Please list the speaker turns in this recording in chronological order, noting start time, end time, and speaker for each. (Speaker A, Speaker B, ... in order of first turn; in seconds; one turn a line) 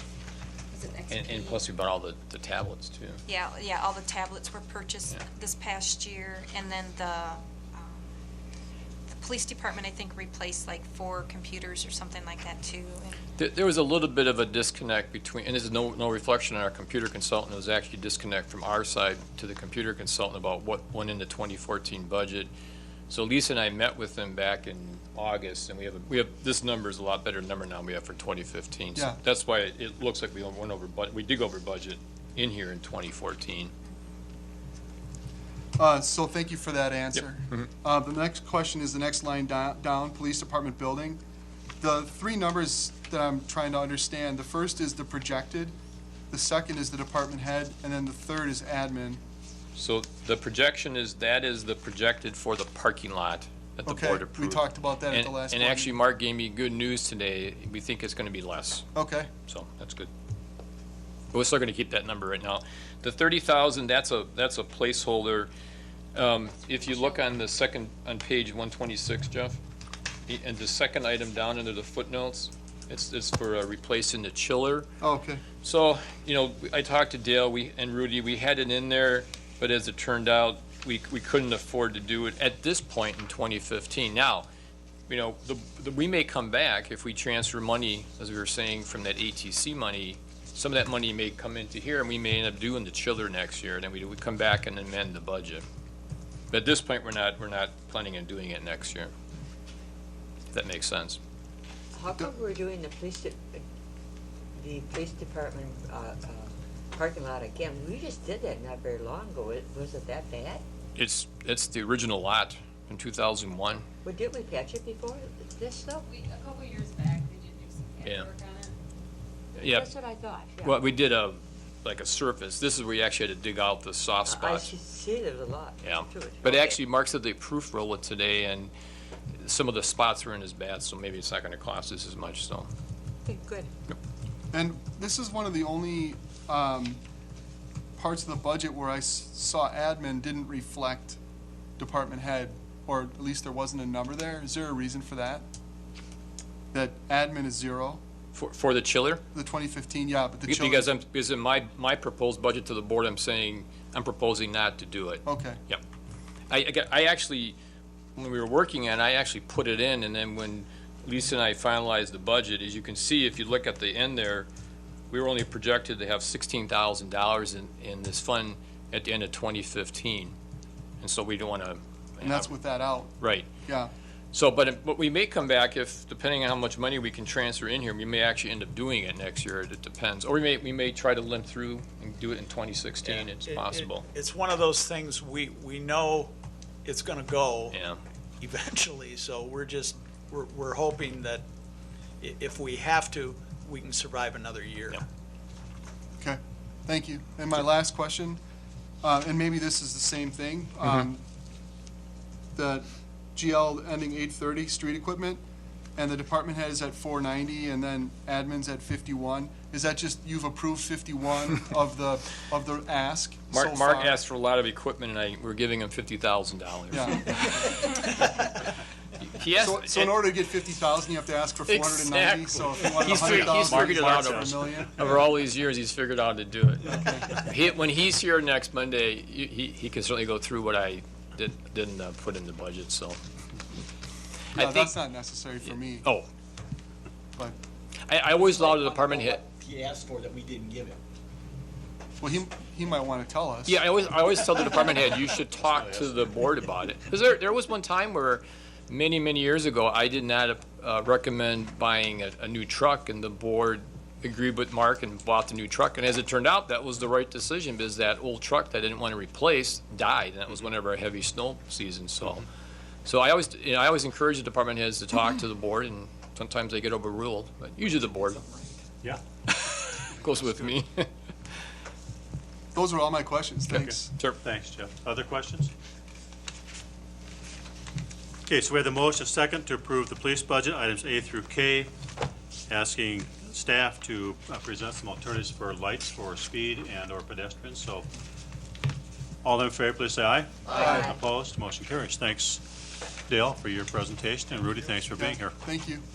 Speaker A: 0.7-1.4
Speaker B: 1.1-3.2
Speaker A: 3.3-8.1
Speaker A: 9.1-13.2
Speaker B: 13.4-22.5
Speaker B: 23.1-33.7
Speaker C: 28.9-29.2
Speaker C: 35.8-41.2
Speaker C: 41.8-45.7
Speaker C: 46.3-49.2
Speaker B: 49.8-58.9
Speaker C: 53.9-55.9
Speaker C: 58.9-59.3
Speaker B: 59.5-60.1
Speaker B: 61.3-65.5
Speaker B: 66.1-69.6
Speaker B: 70.3-74.9
Speaker C: 75.0-75.4
Speaker B: 75.6-84.5
Speaker B: 85.1-95.6
Speaker B: 96.5-99.1
Speaker B: 100.5-101.2
Speaker D: 101.9-103.6
Speaker D: 104.6-110.6
Speaker B: 111.0-113.8
Speaker D: 114.0-116.1
Speaker E: 116.0-118.7
Speaker B: 118.0-118.3
Speaker B: 119.6-119.9
Speaker D: 119.6-120.8
Speaker B: 120.6-124.7
Speaker D: 124.2-126.8
Speaker B: 125.8-128.7
Speaker B: 129.4-132.7
Speaker D: 133.2-133.7
Speaker C: 134.5-137.0
Speaker C: 137.9-141.2
Speaker C: 141.8-145.4
Speaker C: 146.7-148.0
Speaker B: 148.3-149.2
Speaker C: 149.3-150.9
Speaker B: 150.5-155.8
Speaker C: 155.2-155.6
Speaker B: 156.5-157.6
Speaker B: 158.2-164.5
Speaker B: 165.1-170.3
Speaker B: 171.0-172.5
Speaker C: 172.2-173.9
Speaker B: 173.2-173.5
Speaker B: 174.3-184.1
Speaker F: 183.1-186.3
Speaker F: 186.8-187.8
Speaker B: 187.7-188.0
Speaker F: 188.4-191.5
Speaker F: 192.2-195.0
Speaker C: 196.2-198.4
Speaker C: 199.0-201.2
Speaker C: 202.5-205.4
Speaker C: 205.9-214.2
Speaker B: 213.5-217.8
Speaker C: 216.9-217.5
Speaker B: 219.2-220.3
Speaker C: 219.6-225.0
Speaker B: 221.7-233.2
Speaker G: 223.0-224.5
Speaker C: 226.9-227.3
Speaker B: 234.5-234.9
Speaker C: 234.5-236.1
Speaker B: 236.0-236.3
Speaker B: 238.1-239.4
Speaker H: 238.5-241.0
Speaker C: 242.2-243.8
Speaker B: 243.7-262.4
Speaker H: 245.8-246.1
Speaker B: 263.0-268.4
Speaker B: 269.4-271.1
Speaker C: 272.7-274.1
Speaker G: 273.7-275.7
Speaker G: 278.5-281.9
Speaker G: 282.7-288.1
Speaker G: 289.4-292.6
Speaker C: 290.7-291.1
Speaker G: 293.3-295.5
Speaker C: 295.2-296.0